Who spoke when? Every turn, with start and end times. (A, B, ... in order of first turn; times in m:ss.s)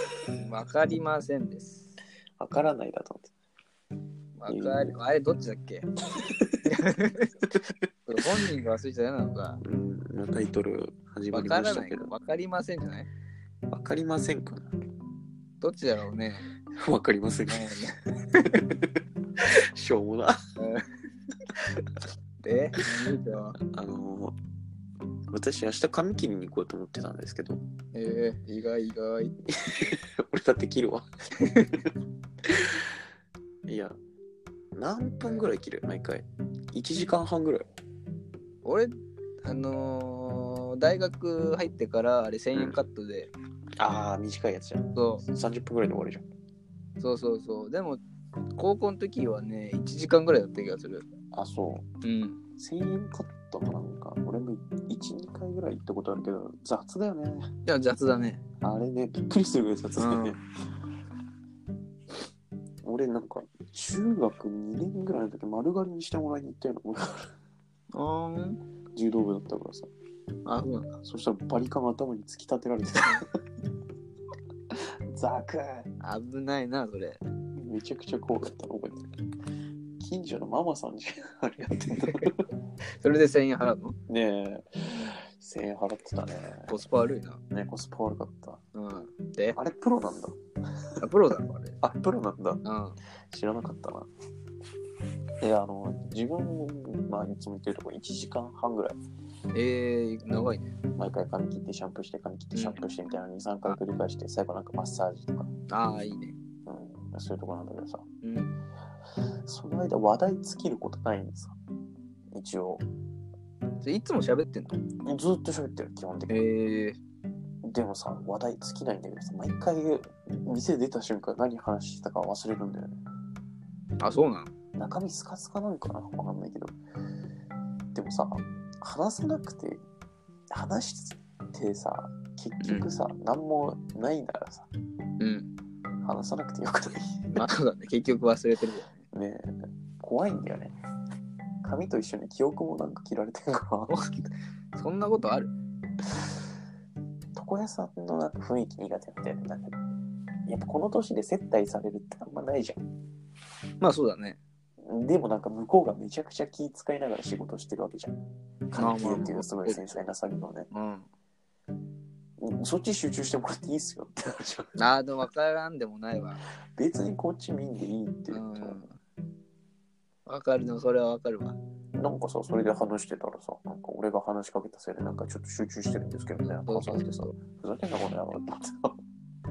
0:00.4-0:01.9 A
0:02.4-0:03.3 B
0:04.4-0:05.9 A
0:04.5-0:05.0 B
0:06.1-0:06.6 B
0:06.6-0:07.4 A
0:08.1-0:09.6 A
0:09.6-0:12.1 B
0:11.3-0:13.1 A
0:13.7-0:14.7 B
0:15.6-0:16.5 A
0:16.8-0:17.8 B
0:17.5-0:18.6 A
0:19.4-0:20.4 B
0:20.6-0:20.9 A
0:22.4-0:23.6 A
0:23.6-0:24.4 B
0:25.3-0:27.6 B
0:27.9-0:29.3 A
0:29.5-0:31.9 B
0:31.4-0:31.8 A
0:32.4-0:32.8 B
0:33.7-0:34.0 B
0:34.7-0:37.7 B
0:35.2-0:35.5 A
0:38.6-0:38.9 A
0:39.4-0:43.3 A
0:43.8-0:46.2 B
0:45.0-0:45.2 A
0:47.0-0:48.0 A
0:48.6-0:51.1 A
0:51.3-0:51.8 B
0:52.0-0:52.4 A
0:52.6-0:57.5 B
0:57.7-0:58.4 A
0:58.6-1:00.4 B
1:00.0-1:00.4 A
1:02.8-1:07.3 B
1:07.9-1:08.6 A
1:09.0-1:09.9 B
1:10.5-1:11.0 A
1:11.0-1:13.3 B
1:14.7-1:15.9 B
1:16.0-1:17.2 A
1:17.6-1:19.1 B
1:20.0-1:22.4 B
1:22.0-1:22.3 A
1:23.0-1:24.0 A
1:24.1-1:26.8 B
1:26.7-1:27.4 A
1:27.5-1:28.6 B
1:28.8-1:29.6 A
1:29.5-1:30.4 B
1:31.0-1:31.8 A
1:31.8-1:32.6 B
1:32.6-1:33.0 A
1:33.3-1:34.1 B
1:35.4-1:39.0 B
1:39.5-1:40.8 A
1:41.0-1:45.5 B
1:42.6-1:42.8 A
1:45.7-1:46.4 A
1:46.7-1:48.1 B
1:48.2-1:48.5 A
1:49.5-1:51.6 B
1:52.3-1:52.8 B
1:53.8-1:54.8 A
1:55.0-1:56.4 B
1:56.3-1:57.0 A
1:57.6-2:03.0 B
2:04.0-2:04.5 A
2:04.8-2:06.8 B
2:07.9-2:09.8 B
2:10.5-2:14.7 B
2:12.6-2:12.9 A
2:15.2-2:15.5 A
2:16.0-2:17.4 B
2:17.3-2:19.0 A
2:19.1-2:20.8 B
2:21.6-2:23.9 B
2:23.9-2:25.5 A
2:27.4-2:29.8 B
2:30.5-2:32.8 B
2:33.8-2:34.4 A
2:34.8-2:38.2 B
2:38.7-2:40.7 B
2:38.8-2:39.9 A
2:40.7-2:41.1 A
2:42.4-2:44.8 B
2:44.8-2:46.4 A
2:46.8-2:48.8 B
2:48.3-2:49.0 A
2:50.3-2:51.6 A
2:52.0-2:59.0 B
2:56.4-2:57.3 A